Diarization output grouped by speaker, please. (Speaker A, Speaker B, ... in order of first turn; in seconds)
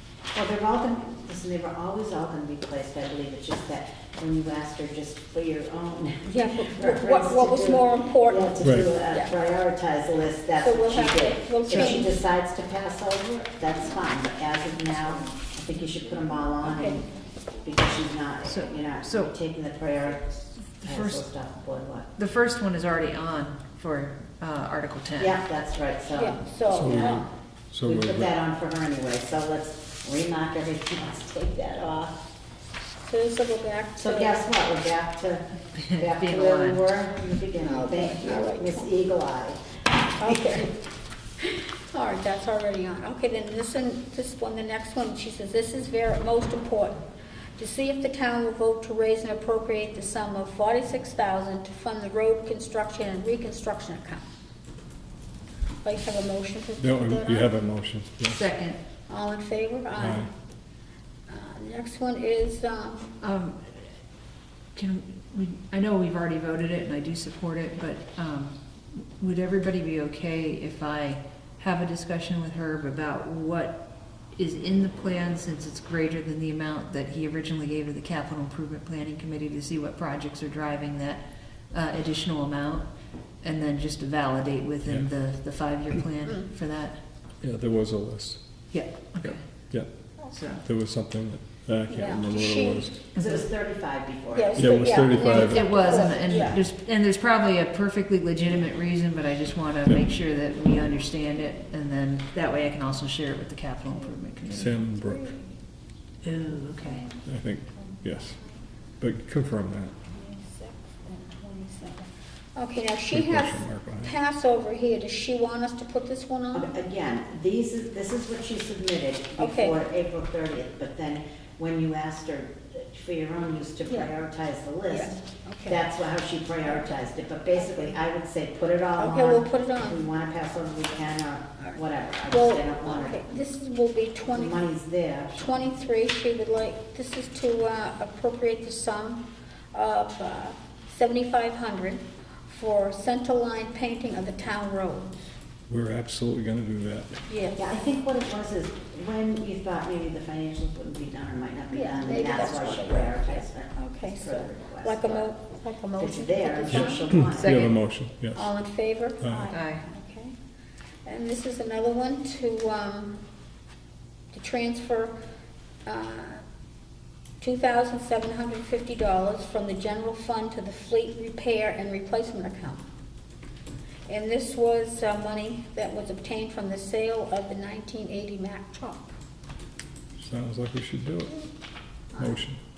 Speaker A: 0.3-17.0, 17.6-20.3, 20.8-22.1, 25.2-27.3, 27.8-32.2, 34.0-39.6, 40.1-40.7, 93.2-95.0, 96.2-96.6, 116.5-133.2, 134.3-135.5, 147.5-155.3, 156.0-157.7
Speaker B: 6.3-9.3, 10.6-12.2, 16.6-17.0, 26.1-27.2, 33.0-34.5, 37.6-38.9, 40.2-40.7, 41.9-47.0, 47.6-54.2, 55.8-57.5, 59.1-60.3, 61.3-63.1, 91.9-92.8, 94.3-96.6, 104.8-105.5, 106.8-108.6, 110.1-116.7, 119.4-119.8, 124.9-125.8, 127.5-127.9, 129.0-130.0, 132.3-134.6, 135.3-145.3, 147.3-147.7, 151.7-157.2, 158.3-160.3, 161.0-163.2, 164.3-165.1, 165.8-166.4, 167.4-172.8, 174.1-179.1
Speaker C: 18.4-19.3, 20.7-21.2, 22.1-25.4, 35.8-36.8, 58.3-58.8, 63.2-63.8, 64.7-82.9, 83.4-87.0, 88.7-89.4, 90.3-90.6, 93.1-93.4, 95.4-104.8, 106.2-107.1, 157.3-157.7, 159.5-159.8
Speaker D: 26.7-28.3, 56.8-58.4, 60.0-60.3, 84.8-85.1, 87.4-93.0, 94.5-96.1, 104.5-105.3, 107.2-108.4, 109.0-109.9, 113.1-114.1, 145.7-147.2, 156.7-158.5, 159.2-159.5, 180.2-181.4, 182.2-182.6